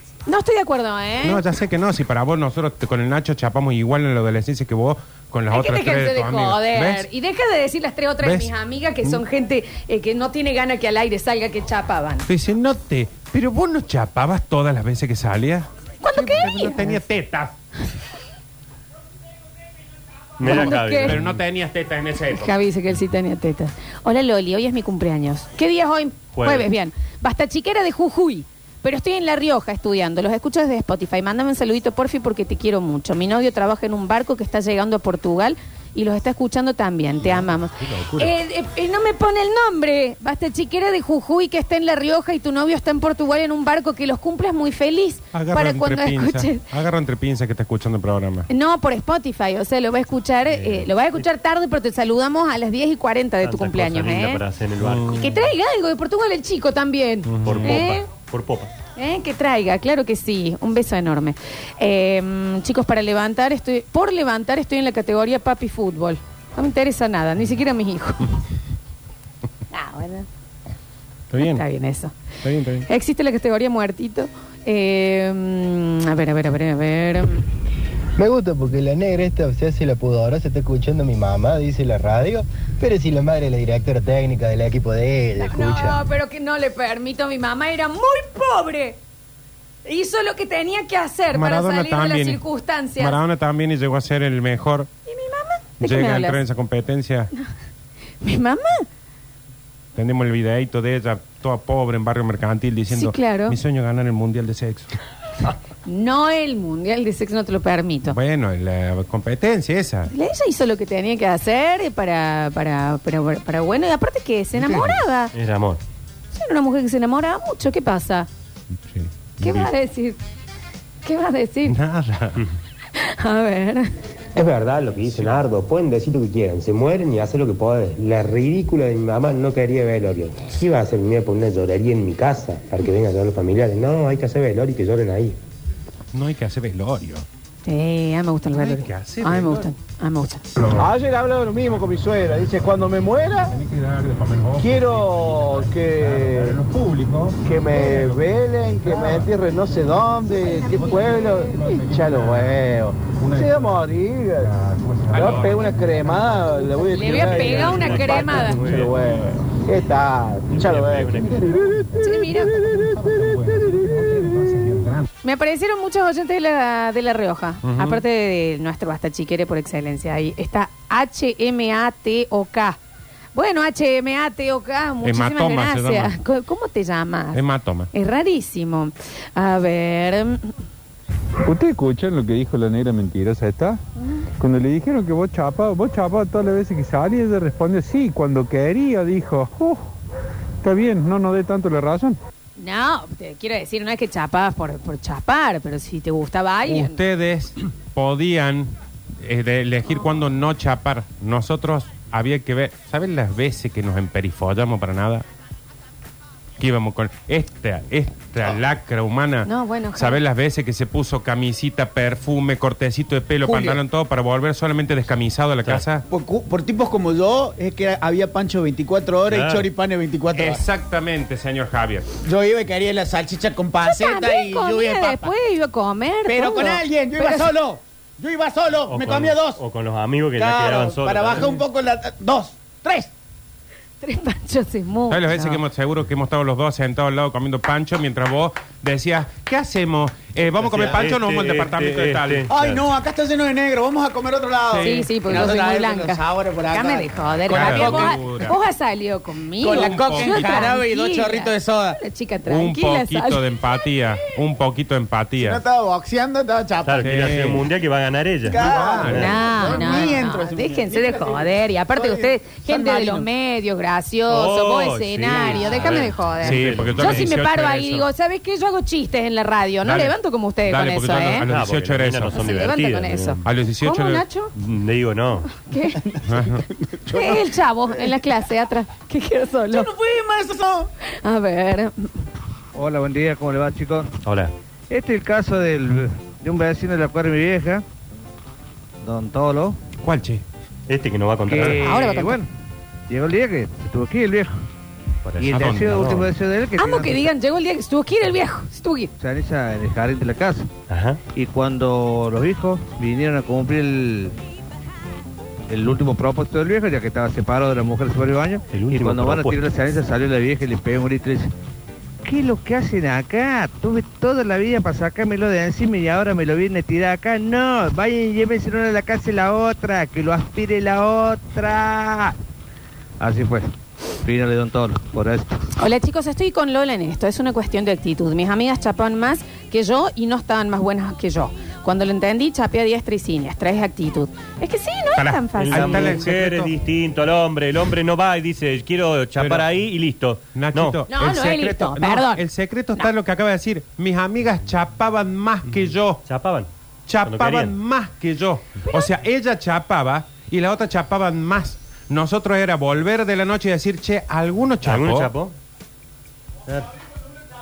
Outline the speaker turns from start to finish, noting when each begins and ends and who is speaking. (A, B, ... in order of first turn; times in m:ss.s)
0:00.3-0:01.4 A
0:01.2-0:07.1 B
0:05.5-0:12.3 A
0:08.2-0:08.5 B
0:12.3-0:17.5 B
0:16.0-0:17.0 A
0:20.4-0:21.4 C
0:20.4-0:21.2 A
0:20.4-0:22.5 B
0:22.3-0:46.6 A
0:26.4-0:26.7 C
0:37.8-0:38.3 B
0:45.3-0:48.5 B
0:48.5-0:54.4 A
0:50.5-0:51.2 C
0:53.4-0:55.2 C
0:54.8-0:55.4 B
0:55.1-0:58.1 A
0:57.3-0:57.9 B
0:57.4-0:58.7 C
0:59.0-1:08.3 A
1:09.7-1:10.3 A
1:11.3-1:11.6 B
1:11.4-1:12.1 A
1:12.4-1:12.9 B
1:12.9-1:17.4 A
1:18.2-1:26.0 D
1:25.4-1:29.0 A
1:29.9-1:33.2 A
1:31.3-1:32.4 B
1:33.0-1:34.9 B
1:35.1-1:36.4 A
1:35.8-1:37.3 B
1:38.2-1:38.9 A
1:40.0-1:44.9 B
1:42.9-1:43.6 A
1:45.9-1:48.2 A
1:48.1-1:50.1 B
1:50.1-1:55.3 A
1:54.6-1:54.9 B
1:55.3-1:55.8 C
1:56.3-1:58.3 A
1:58.9-1:59.7 B
1:59.4-2:00.2 A
2:01.0-2:01.8 A
2:01.7-2:02.4 B
2:03.0-2:03.9 A
2:04.4-2:15.4 E
2:16.1-2:17.2 B
2:17.6-2:20.4 A
2:18.5-2:19.7 B
2:20.6-2:20.9 B
2:20.8-2:23.6 F
2:23.5-2:29.3 B
2:24.6-2:26.6 F
2:27.4-2:34.5 F
2:30.6-2:36.9 B
2:35.1-2:41.9 F
2:36.9-2:38.6 A
2:37.2-2:38.9 C
2:40.5-2:41.5 C
2:41.2-2:45.1 B
2:42.0-2:42.6 A
2:42.7-2:44.1 F
2:45.2-2:52.8 A
2:47.6-2:48.0 B
2:53.4-2:57.4 A
2:55.0-2:56.2 B
2:57.3-2:57.9 B
2:57.9-3:00.5 A
3:01.4-3:03.8 G
3:04.4-3:09.8 G
3:10.6-3:12.2 G
3:12.6-3:17.0 A
3:16.7-3:25.2 B
3:26.6-3:36.0 B
3:29.5-3:30.2 A
3:33.4-3:33.8 H
3:36.1-3:40.6 H
3:39.3-3:39.7 C
3:40.4-3:42.1 B
3:42.2-3:45.3 H
3:43.8-3:47.5 A
3:46.3-3:49.6 H
3:48.9-3:51.6 C
3:50.4-3:53.1 H
3:54.0-3:55.6 A
3:55.1-4:02.5 B
4:00.6-4:02.8 C
4:02.5-4:08.5 H
4:04.7-4:05.1 B
4:04.8-4:13.4 A
4:07.5-4:08.6 B
4:09.6-4:12.0 H
4:09.7-4:10.7 B
4:12.5-4:15.6 B
4:15.4-4:17.4 H
4:16.8-4:19.3 C
4:17.0-4:17.6 B
4:18.5-4:23.3 H
4:18.5-4:20.2 B
4:18.7-4:31.5 A
4:24.3-4:27.3 C
4:25.3-4:26.1 H
4:26.4-4:28.1 B
4:29.8-4:30.2 B
4:30.7-4:32.4 B
4:31.5-4:33.4 C
4:32.3-4:34.5 A
4:33.4-4:34.2 B
4:34.6-4:35.5 C
4:35.6-4:36.0 A
4:36.0-4:38.1 H
4:36.3-4:36.6 B
4:37.1-4:39.9 A
4:39.7-4:40.9 H
4:41.2-4:42.2 A
4:42.7-4:44.1 I
4:44.2-4:44.5 C
4:44.9-4:47.8 I
4:49.0-4:49.8 I
4:50.0-4:50.4 B
4:50.9-4:51.9 C
4:51.5-4:52.5 I
4:51.8-4:52.4 A
4:53.1-4:54.5 I
4:55.2-4:56.2 C
4:55.4-4:57.3 I
4:55.5-4:56.3 B
4:56.8-4:59.1 A
4:59.2-5:00.7 I
5:00.9-5:01.2 C
5:01.3-5:04.4 I
5:05.7-5:11.5 I
5:08.7-5:09.6 C
5:12.2-5:22.4 I
5:23.2-5:23.7 I
5:24.2-5:25.5 I
5:25.8-5:36.2 A
5:35.2-5:36.7 B
5:35.6-5:41.0 C
5:39.4-5:39.7 B
5:40.5-5:46.2 B
5:41.1-5:42.4 A
5:46.3-5:46.7 C
5:47.1-5:55.3 B
5:47.2-5:47.8 C
5:54.8-5:55.5 C